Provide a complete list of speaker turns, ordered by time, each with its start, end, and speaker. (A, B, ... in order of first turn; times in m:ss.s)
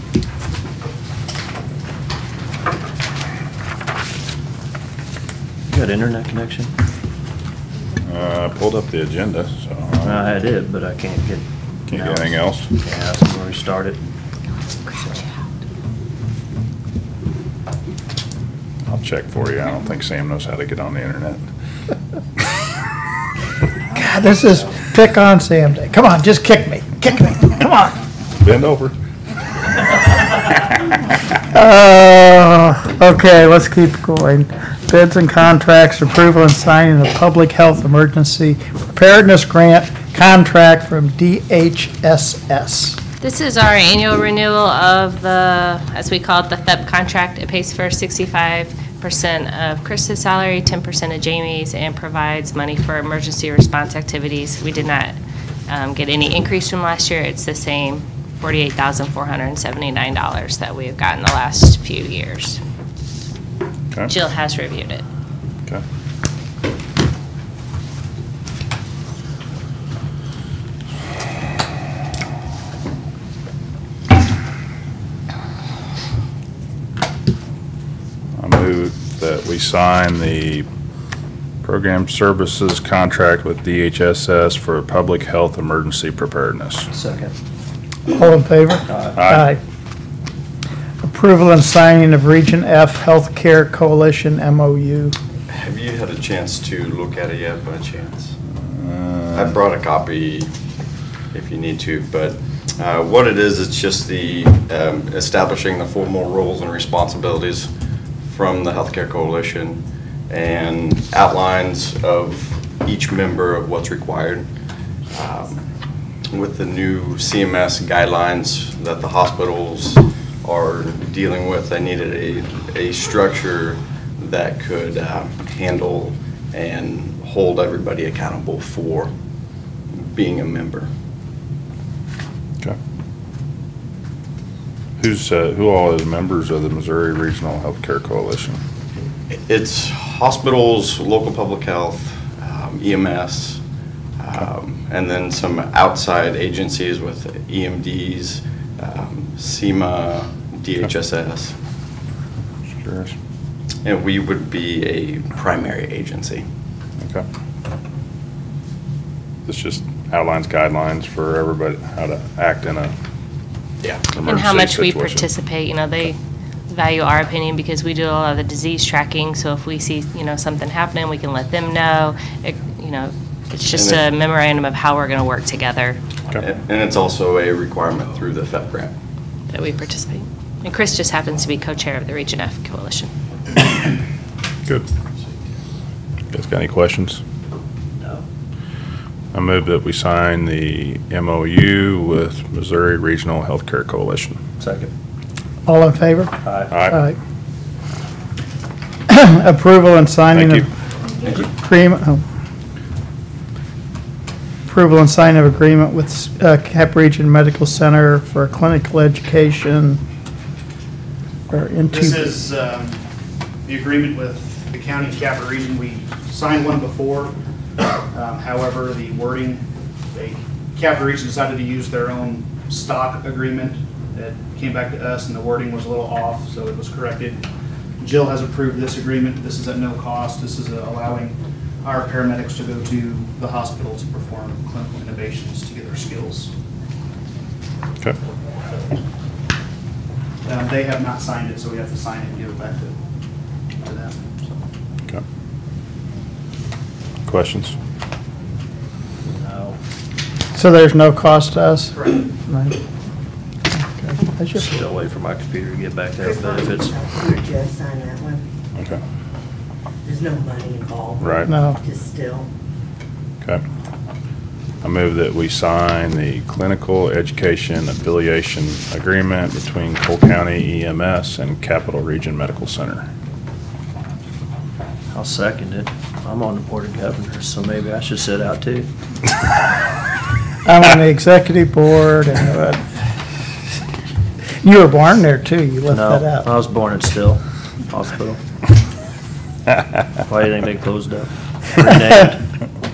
0:05.7-0:06.7 A
0:08.0-0:10.3 B
0:10.0-0:14.0 A
0:11.9-0:12.7 B
0:18.9-0:21.4 B
0:23.9-0:28.0 C
0:28.4-0:28.9 B
0:31.5-0:43.0 C
0:43.2-0:55.2 D
0:55.7-1:02.6 D
1:04.1-1:05.0 D
1:18.4-1:20.7 B
1:21.6-1:26.9 B
1:26.9-1:27.3 A
1:28.1-1:29.6 C
1:29.1-1:29.5 B
1:31.0-1:35.2 C
1:35.5-1:38.3 E
1:38.6-1:39.6 B
1:39.3-1:40.5 E
1:41.3-1:47.7 E
1:48.3-1:54.5 E
1:55.1-1:55.6 E
1:56.3-2:09.1 E
2:09.9-2:10.9 E
2:15.0-2:18.6 B
2:19.3-2:23.6 E
2:24.2-2:31.6 E
2:32.7-2:33.1 B
2:33.8-2:36.4 E
2:37.0-2:37.3 B
2:39.5-2:42.9 B
2:44.1-2:45.3 B
2:44.3-2:46.1 D
2:46.7-2:56.0 D
2:53.7-2:54.0 E
2:56.3-2:58.9 E
2:59.5-3:03.1 D
3:06.3-3:07.2 B
3:09.3-3:14.4 B
3:14.6-3:14.9 A
3:15.7-3:17.2 C
3:16.4-3:16.7 A
3:16.7-3:17.0 B
3:19.1-3:20.7 C
3:20.3-3:20.7 B
3:21.2-3:22.2 C
3:24.7-3:30.0 C
3:31.5-3:32.3 C
3:31.9-3:33.0 F
3:33.6-3:37.4 F
3:38.1-3:47.4 F
3:48.0-3:56.5 F
4:00.4-4:03.0 F
4:03.8-4:04.6 F
4:07.3-4:07.8 B
4:09.2-4:09.8 A
4:10.6-4:12.0 C
4:12.5-4:12.8 C
4:14.0-4:14.8 C
4:14.6-4:16.9 A
4:16.2-4:18.4 G
4:18.8-4:19.0 B
4:20.0-4:22.5 G
4:21.2-4:21.5 B
4:21.4-4:21.8 C
4:24.8-4:33.1 B
4:35.1-4:38.9 A
4:40.6-4:42.8 C
4:44.6-4:46.5 C
4:45.9-4:48.4 A
4:50.3-4:52.4 A